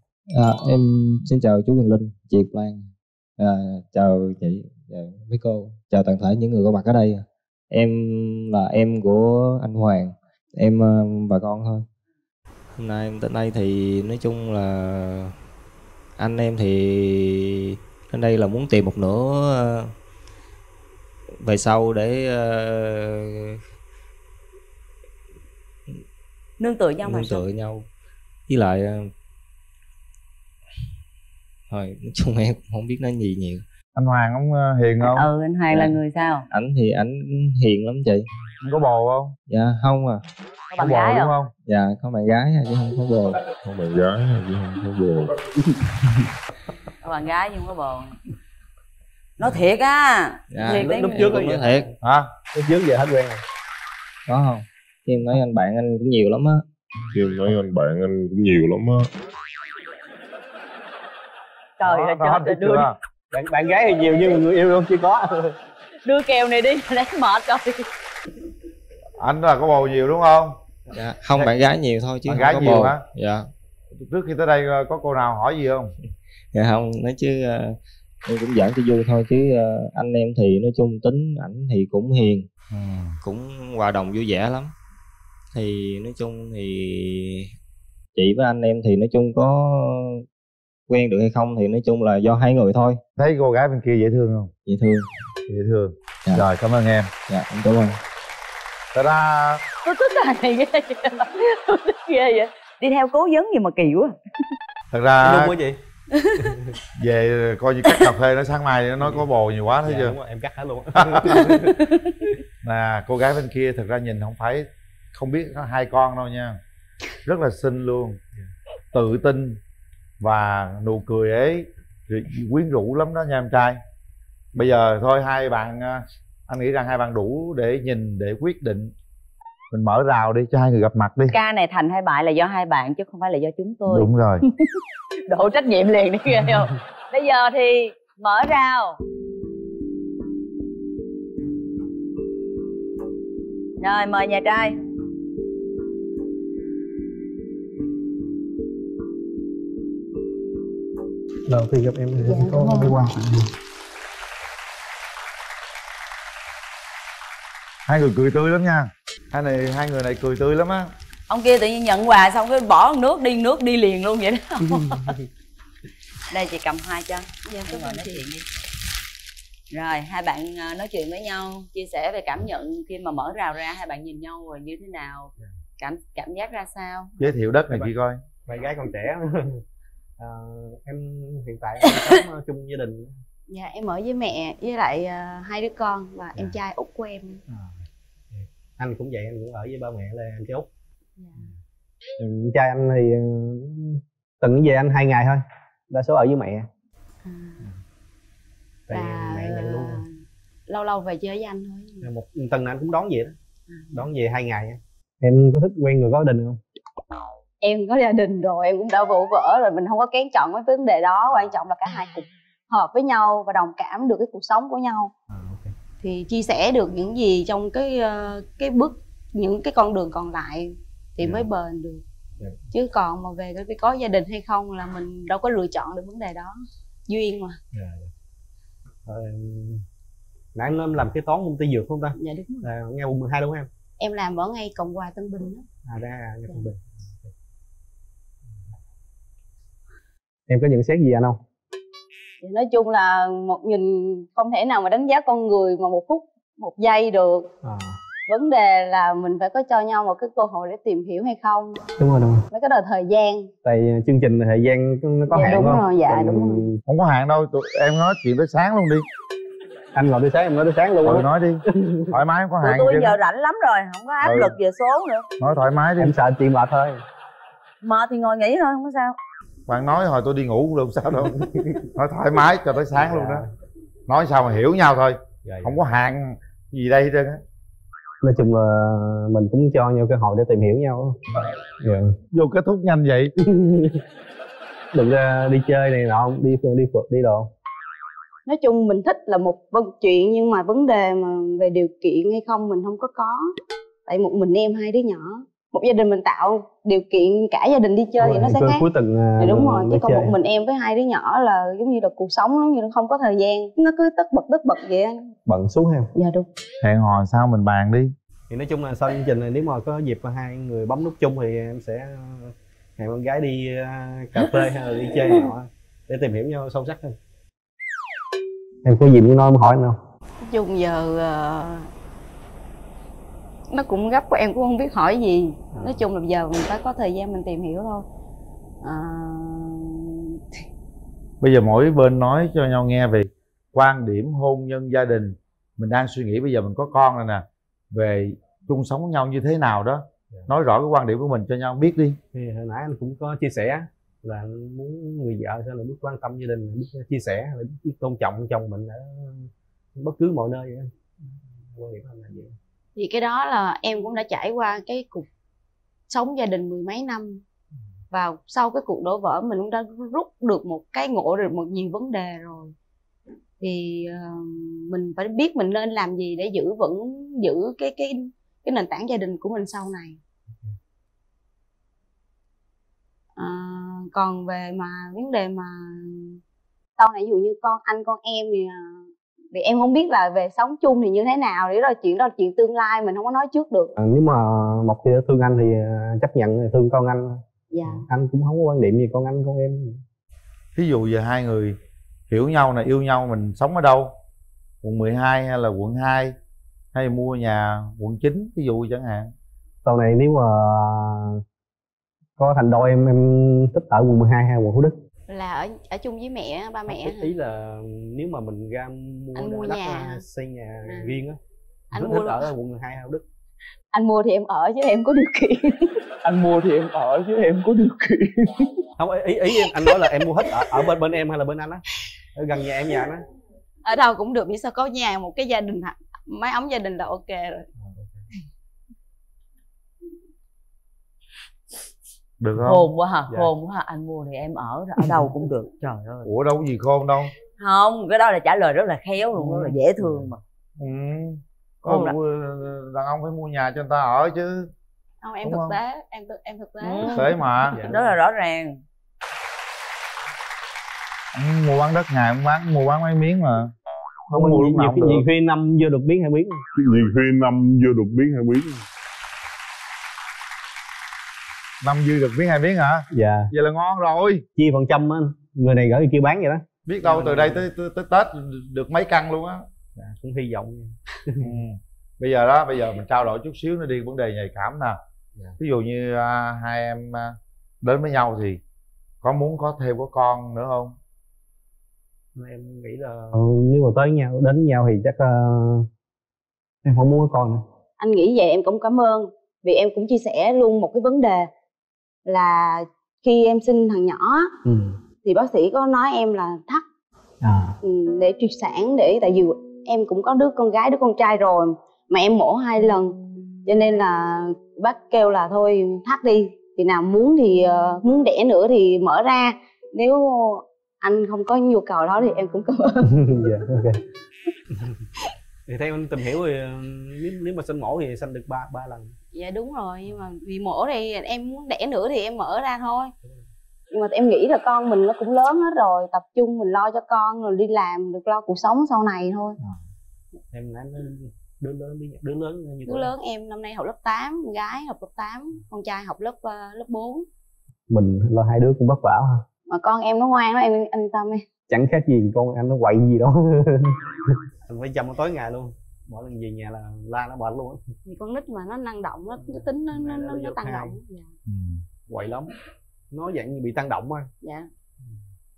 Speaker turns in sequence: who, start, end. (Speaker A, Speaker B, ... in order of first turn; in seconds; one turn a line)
Speaker A: 0.3-11.8
Speaker A: 12.7-15.3
Speaker A: 16.2-19.9
Speaker A: 21.4-23.6
Speaker B: 26.6-27.4
Speaker A: 27.0-27.9
Speaker A: 28.5-29.1
Speaker A: 31.7-33.6
Speaker C: 34.0-35.3
Speaker B: 35.0-36.4
Speaker A: 35.7-36.0
Speaker A: 36.5-38.2
Speaker C: 38.6-39.4
Speaker A: 39.5-40.2
Speaker B: 40.7-41.3
Speaker C: 40.8-41.5
Speaker A: 41.7-43.7
Speaker D: 43.6-45.3
Speaker A: 44.4-45.0
Speaker B: 47.0-48.2
Speaker B: 49.4-51.3
Speaker A: 50.5-51.9
Speaker E: 50.7-51.9
Speaker C: 52.0-52.3
Speaker E: 52.5-53.4
Speaker A: 54.3-56.6
Speaker D: 57.1-59.1
Speaker B: 61.8-62.9
Speaker C: 61.8-62.9
Speaker E: 63.3-65.5
Speaker B: 66.0-67.9
Speaker C: 69.2-70.6
Speaker A: 70.9-73.5
Speaker C: 72.3-73.0
Speaker C: 74.0-75.9
Speaker A: 76.5-82.5
Speaker C: 82.7-83.2
Speaker A: 83.2-84.7
Speaker A: 85.5-87.5
Speaker A: 88.2-90.2
Speaker A: 90.9-93.0
Speaker C: 93.2-94.5
Speaker A: 94.7-95.1
Speaker C: 95.5-97.1
Speaker A: 97.3-98.0
Speaker C: 98.9-99.6
Speaker B: 99.8-104.1
Speaker C: 104.9-105.5
Speaker E: 105.2-105.8
Speaker E: 106.4-106.7
Speaker C: 107.0-110.2
Speaker E: 109.8-111.8
Speaker C: 111.0-111.5
Speaker B: 111.7-112.1
Speaker C: 112.6-116.6
Speaker C: 117.2-118.2
Speaker C: 118.9-119.6
Speaker C: 120.2-123.8
Speaker C: 124.5-128.9
Speaker C: 129.7-131.3
Speaker B: 131.3-134.1
Speaker C: 133.9-134.4
Speaker B: 135.3-139.0
Speaker B: 143.8-144.7
Speaker E: 151.5-153.5
Speaker C: 157.8-160.9
Speaker B: 161.3-165.2
Speaker B: 166.3-168.4
Speaker F: 167.6-168.2
Speaker B: 169.7-177.1
Speaker C: 177.2-178.2
Speaker E: 178.4-179.6
Speaker E: 180.2-183.2
Speaker F: 183.5-187.4
Speaker E: 188.3-190.7
Speaker F: 191.2-191.4
Speaker E: 192.2-196.7
Speaker F: 197.2-197.6
Speaker E: 198.9-200.0
Speaker F: 198.9-200.1
Speaker F: 200.7-202.1
Speaker E: 202.0-203.3
Speaker F: 203.7-204.0
Speaker E: 203.9-206.6
Speaker F: 207.6-215.1
Speaker E: 215.3-215.7
Speaker F: 216.0-222.0
Speaker E: 221.2-221.5
Speaker F: 222.7-227.6
Speaker E: 227.7-228.1
Speaker E: 229.1-229.8
Speaker E: 230.5-233.7
Speaker F: 232.2-232.7
Speaker F: 234.0-235.7
Speaker E: 235.8-237.3
Speaker E: 240.5-241.4
Speaker F: 242.4-247.5
Speaker E: 247.6-248.0
Speaker F: 248.3-251.8
Speaker E: 252.0-252.5
Speaker F: 252.5-253.5
Speaker E: 253.6-256.8
Speaker F: 255.3-256.6
Speaker C: 255.3-255.8
Speaker C: 256.9-259.1
Speaker E: 259.9-262.1
Speaker C: 261.0-263.1
Speaker B: 262.6-265.3
Speaker C: 264.2-264.6
Speaker C: 265.4-266.1
Speaker E: 266.0-267.0
Speaker B: 267.8-269.1
Speaker C: 269.7-271.4
Speaker E: 271.2-271.9
Speaker C: 271.9-273.4
Speaker E: 272.9-273.4
Speaker C: 274.1-277.4
Speaker E: 275.4-275.7
Speaker E: 278.2-282.1
Speaker C: 282.3-283.3
Speaker E: 283.4-284.0
Speaker E: 284.9-287.5
Speaker F: 288.5-293.5
Speaker F: 294.1-298.8
Speaker E: 298.2-300.4
Speaker F: 299.4-305.3
Speaker E: 305.5-306.1
Speaker F: 306.1-306.5
Speaker C: 306.8-308.1
Speaker E: 308.5-317.1
Speaker E: 318.8-320.0
Speaker F: 320.4-321.9
Speaker F: 323.7-328.1
Speaker E: 325.7-326.0
Speaker F: 328.8-330.2
Speaker C: 331.4-342.2
Speaker E: 342.3-350.9
Speaker E: 351.7-352.5
Speaker F: 352.9-355.3
Speaker F: 356.1-357.4
Speaker F: 358.1-362.7
Speaker F: 363.6-370.2
Speaker F: 373.4-376.4
Speaker F: 377.0-383.9
Speaker E: 384.0-390.0
Speaker F: 387.7-388.1
Speaker C: 390.7-391.8
Speaker C: 392.3-394.1
Speaker C: 394.8-396.4
Speaker C: 396.9-399.3
Speaker E: 399.8-401.4
Speaker E: 402.4-404.9
Speaker F: 405.3-407.3
Speaker E: 406.9-411.4
Speaker F: 409.3-410.2
Speaker F: 410.9-411.2
Speaker F: 411.9-412.5
Speaker E: 411.9-413.2
Speaker F: 413.9-416.1
Speaker F: 417.0-418.8
Speaker E: 419.0-421.8
Speaker F: 419.6-420.8
Speaker E: 422.3-423.2
Speaker F: 423.8-427.7
Speaker E: 427.8-428.1
Speaker C: 432.4-432.9
Speaker B: 432.6-436.3
Speaker C: 436.2-437.3
Speaker B: 437.6-440.4
Speaker E: 439.4-440.2
Speaker C: 440.8-444.7
Speaker B: 441.8-442.1
Speaker F: 445.2-447.3
Speaker C: 445.4-445.8
Speaker B: 446.8-448.8
Speaker C: 447.1-447.8
Speaker E: 447.7-448.1
Speaker C: 451.3-453.7
Speaker C: 454.3-455.2
Speaker E: 454.3-456.6
Speaker D: 456.7-458.8
Speaker C: 461.8-464.4
Speaker E: 463.1-463.5
Speaker E: 464.6-467.6
Speaker C: 466.9-469.6
Speaker E: 469.9-471.5
Speaker C: 471.4-475.0
Speaker C: 475.6-478.6
Speaker C: 479.2-480.9
Speaker E: 482.3-485.9
Speaker E: 486.8-487.6
Speaker F: 488.0-491.5
Speaker F: 492.2-494.5
Speaker E: 494.6-495.0
Speaker F: 495.2-496.8
Speaker E: 497.4-497.8
Speaker F: 497.8-513.1
Speaker E: 513.0-514.0
Speaker E: 515.7-519.1
Speaker F: 519.3-523.1
Speaker F: 523.9-529.6
Speaker E: 530.5-533.1
Speaker F: 532.9-537.3
Speaker E: 537.9-539.4
Speaker F: 539.7-541.5
Speaker E: 541.7-547.8
Speaker F: 548.0-551.3
Speaker E: 549.4-551.0
Speaker C: 551.5-551.8
Speaker E: 552.1-552.5
Speaker E: 553.1-554.3
Speaker F: 554.4-554.7